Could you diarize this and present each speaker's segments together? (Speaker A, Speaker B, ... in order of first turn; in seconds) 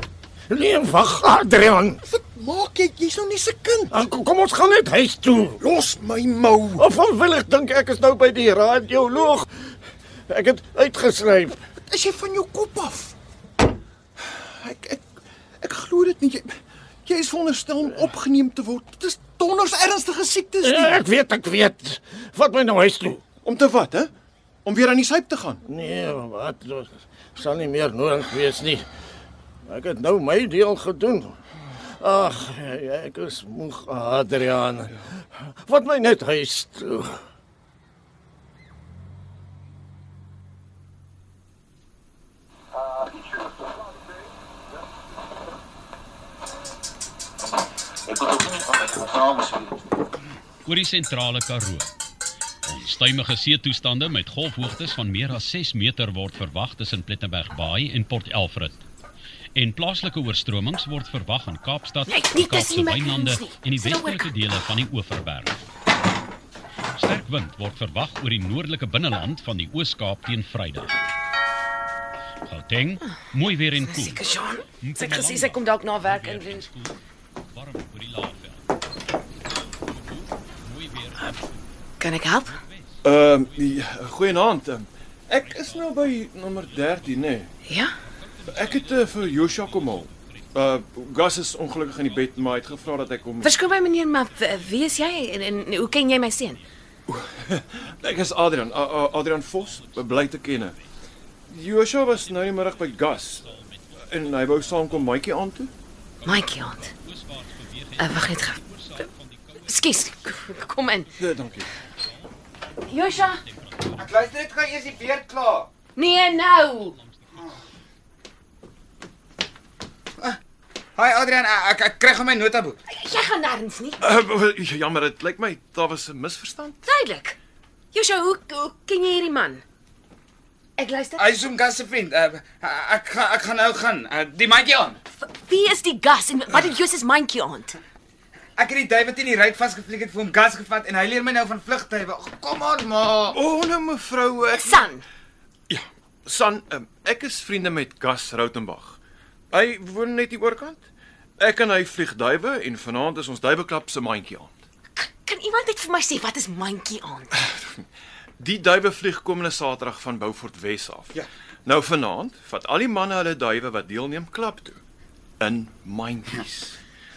Speaker A: 0.5-2.0, 3.9-5.6, 6.8-9.5, 10.3-11.6, 20.6-23.2, 25.6-28.9, 29.7-31.3, 32.0-37.2
Speaker B: 2.0-4.0, 5.6-6.8, 11.8-13.1, 14.2-15.0, 15.6-20.9, 23.4-24.1, 24.6-25.6, 83.0-87.5, 88.5-93.5, 97.1-100.8, 101.5-105.7, 111.2-111.7, 124.0-126.9, 143.3-144.7, 145.7-149.0, 149.5-150.8, 151.4-154.6, 157.5-157.8, 158.4-164.8, 165.4-166.7
Speaker C: 50.6-51.9, 52.6-58.8, 59.5-65.6, 67.0-71.0, 72.5-77.0, 77.5-78.7, 80.2-81.5, 88.5-90.4, 99.7-100.3, 103.4-104.9, 106.2-109.6, 113.5-114.0
Speaker D: 62.1-64.3, 73.8-76.7, 82.0-82.6, 87.7-88.0, 93.4-96.6, 106.2-106.9, 108.0-109.0, 109.6-111.2, 112.8-113.4, 116.0-117.0, 122.9-124.0, 126.8-127.4, 127.9-129.6, 130.8-131.3, 135.2-137.8, 144.6-145.0, 154.9-157.4
Speaker E: 114.0-115.7, 121.0-122.8, 131.2-135.0, 138.6-143.4